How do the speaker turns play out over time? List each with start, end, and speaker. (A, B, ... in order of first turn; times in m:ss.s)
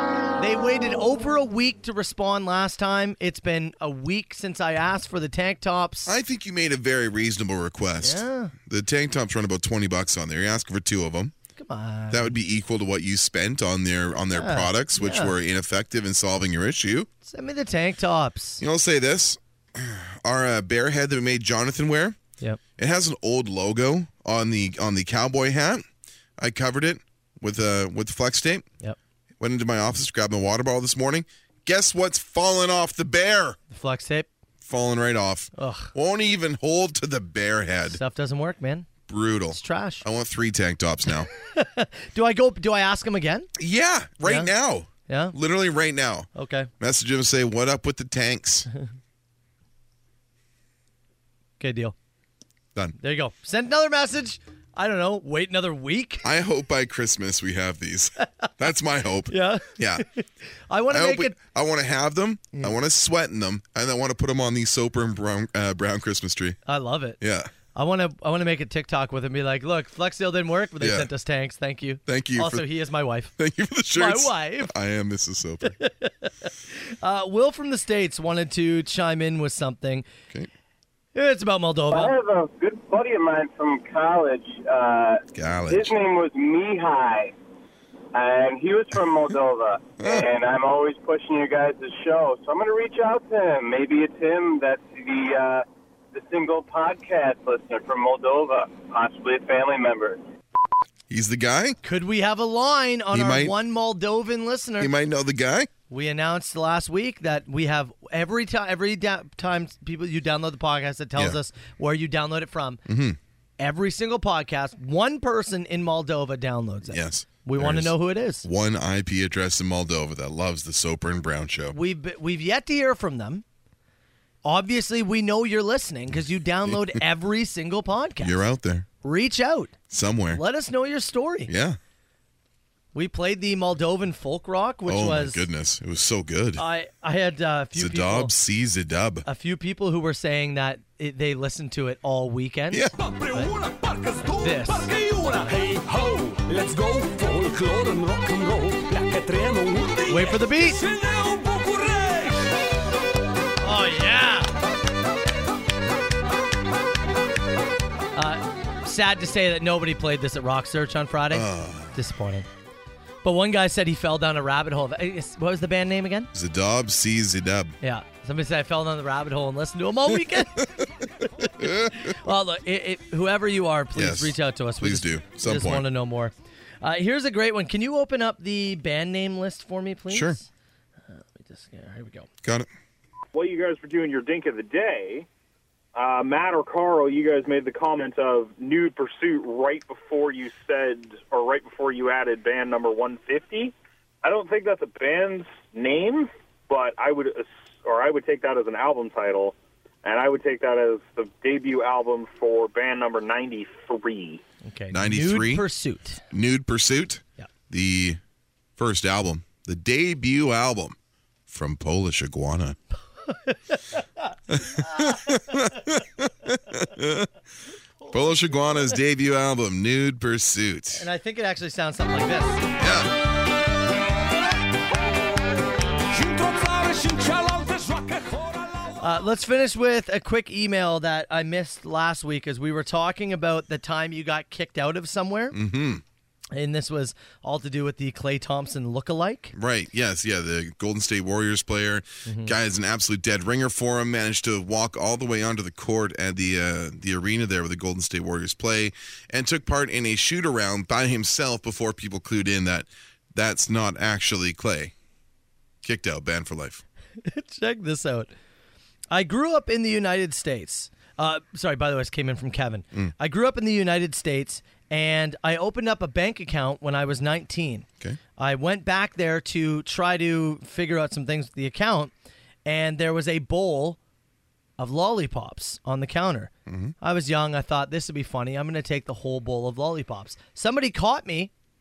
0:00.4-0:06.1 A
0:06.1-0:11.3 B
0:08.0-0:08.5 A
0:11.6-0:12.3 A
0:12.1-0:17.1 B
0:14.3-0:15.3 A
0:17.2-0:18.6 A
0:18.6-0:22.2 B
0:22.8-0:25.8 B
0:26.4-0:28.7 B
0:29.4-0:33.6 B
0:33.7-0:34.3 A
0:34.6-0:38.0 B
0:35.6-0:35.9 A
0:37.9-0:38.9 A
0:39.1-0:41.3 B
0:39.5-0:40.0 A
0:41.4-0:43.5 A
0:43.6-0:46.3 B
0:44.2-0:44.5 A
0:45.1-0:45.3 A
0:46.3-0:46.7 A
0:46.8-0:48.7 B
0:51.6-0:51.9 A
0:53.0-0:56.2 A
0:56.2-1:00.0 B
0:59.3-1:01.4 A
1:00.9-1:06.6 B
1:06.6-1:07.2 A
1:07.2-1:07.5 B
1:07.7-1:13.3 A
1:10.8-1:11.1 B
1:12.0-1:12.6 B
1:13.4-1:15.8 B
1:13.9-1:14.7 A
1:15.7-1:20.0 A
1:21.1-1:22.1 A
1:21.9-1:27.3 C
1:25.3-1:25.9 B
1:28.1-1:40.2 C
1:30.0-1:30.3 B
1:41.1-1:41.8 B
1:41.8-1:44.9 A
1:43.1-1:43.5 B
1:44.8-1:45.7 B
1:45.9-1:52.8 A
1:52.8-1:53.2 B
1:53.6-1:58.4 A
1:56.9-2:01.8 B
2:01.7-2:03.4 A
2:04.4-2:08.4 A
2:06.7-2:07.0 B
2:08.2-2:08.9 B
2:09.0-2:09.7 A
2:09.9-2:10.4 B
2:10.3-2:11.5 A
2:11.5-2:11.8 B
2:12.9-2:15.4 A
2:14.9-2:16.6 B
2:16.6-2:18.3 A
2:17.7-2:19.2 B
2:19.2-2:23.5 A
2:22.7-2:23.0 B
2:23.0-2:32.5 D
2:24.4-2:24.9 A
2:30.1-2:30.8 A
2:33.6-2:34.5 A
2:38.1-2:42.5 A
2:41.3-2:42.0 B
2:43.2-2:46.3 A
2:46.3-2:47.7 B
2:47.8-2:50.7 A
2:51.6-2:52.1 B
2:51.9-3:00.5 A
2:53.9-2:55.8 B
3:00.1-3:00.4 B
3:01.1-3:02.3 A
3:02.4-3:02.7 B
3:03.3-3:05.3 E
3:05.9-3:24.4 E
3:24.6-3:26.2 A
3:24.9-3:25.6 B
3:26.3-3:28.2 B
3:28.8-3:31.0 B
3:31.5-3:32.8 B
3:33.3-3:33.8 A
3:34.5-3:37.3 B
3:34.8-3:35.6 A
3:38.1-3:41.0 B
3:40.9-3:42.7 A
3:42.8-3:43.1 B
3:46.1-3:49.0 D
3:49.0-3:55.6 A
3:55.5-3:56.0 B
3:56.5-3:59.5 A
3:59.5-4:14.9 B
4:02.2-4:02.5 A
4:15.8-4:16.8 B
4:17.2-4:18.3 A
4:19.1-4:32.1 A
4:32.6-4:34.0 A
4:34.8-4:41.5 A
4:36.7-4:36.9 B